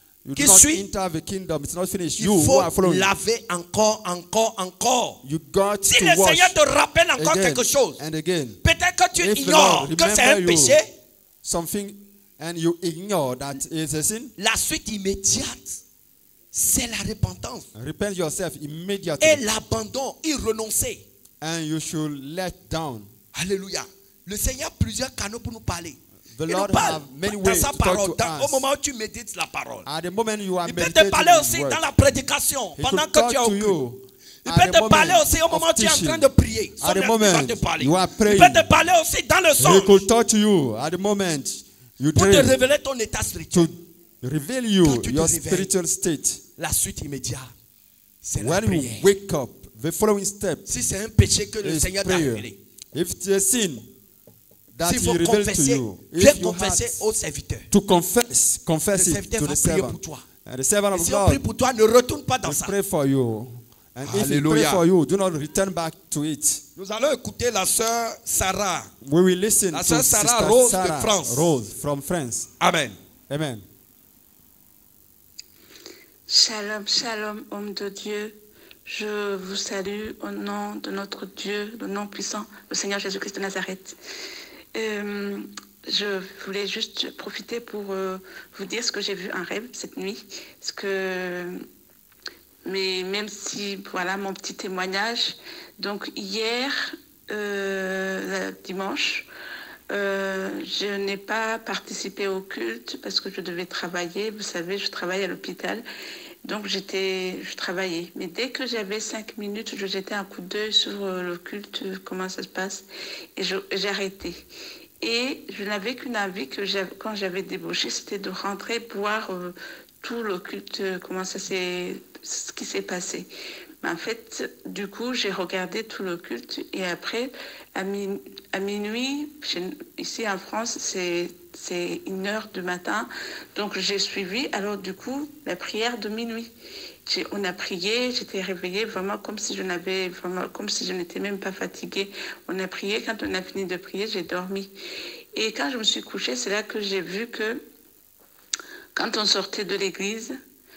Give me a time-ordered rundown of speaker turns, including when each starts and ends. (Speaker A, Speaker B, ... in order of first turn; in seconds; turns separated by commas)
Speaker A: 0.2-3.1, Speaker B: 0.3-0.8, Speaker B: 2.2-5.2, Speaker A: 5.2-6.5, Speaker B: 5.9-8.0, Speaker A: 7.2-8.6, Speaker B: 8.6-10.9, Speaker A: 9.1-10.8, Speaker A: 11.4-14.3, Speaker B: 14.4-15.8, Speaker B: 16.5-17.7, Speaker A: 17.7-19.4, Speaker B: 19.2-21.0, Speaker A: 21.4-23.1, Speaker B: 23.3-29.9, Speaker A: 26.3-28.6, Speaker A: 29.9-31.8, Speaker B: 30.6-33.8, Speaker A: 32.8-36.2, Speaker B: 34.4-40.0, Speaker A: 36.8-38.6, Speaker A: 39.6-42.6, Speaker B: 42.1-43.7, Speaker A: 43.5-46.4, Speaker B: 44.8-45.7, Speaker B: 46.6-47.5, Speaker B: 48.2-49.1, Speaker A: 48.4-50.7, Speaker B: 50.7-52.6, Speaker A: 51.6-53.9, Speaker A: 54.7-57.0, Speaker B: 54.8-57.7, Speaker A: 57.7-61.4, Speaker B: 58.9-60.2, Speaker B: 60.9-62.7, Speaker A: 62.4-66.6, Speaker B: 64.0-64.8, Speaker B: 66.8-68.9, Speaker A: 69.0-72.5, Speaker B: 69.7-71.5, Speaker B: 72.6-73.0, Speaker A: 73.3-73.7, Speaker C: 76.3-84.0, Speaker C: 84.7-91.6, Speaker C: 92.6-99.3, Speaker C: 99.9-105.8, Speaker C: 106.4-112.8, Speaker C: 113.3-114.4, Speaker C: 115.0-123.3, Speaker C: 123.8-136.5, Speaker C: 137.1-144.7, Speaker C: 145.3-147.6, Speaker C: 148.9-150.3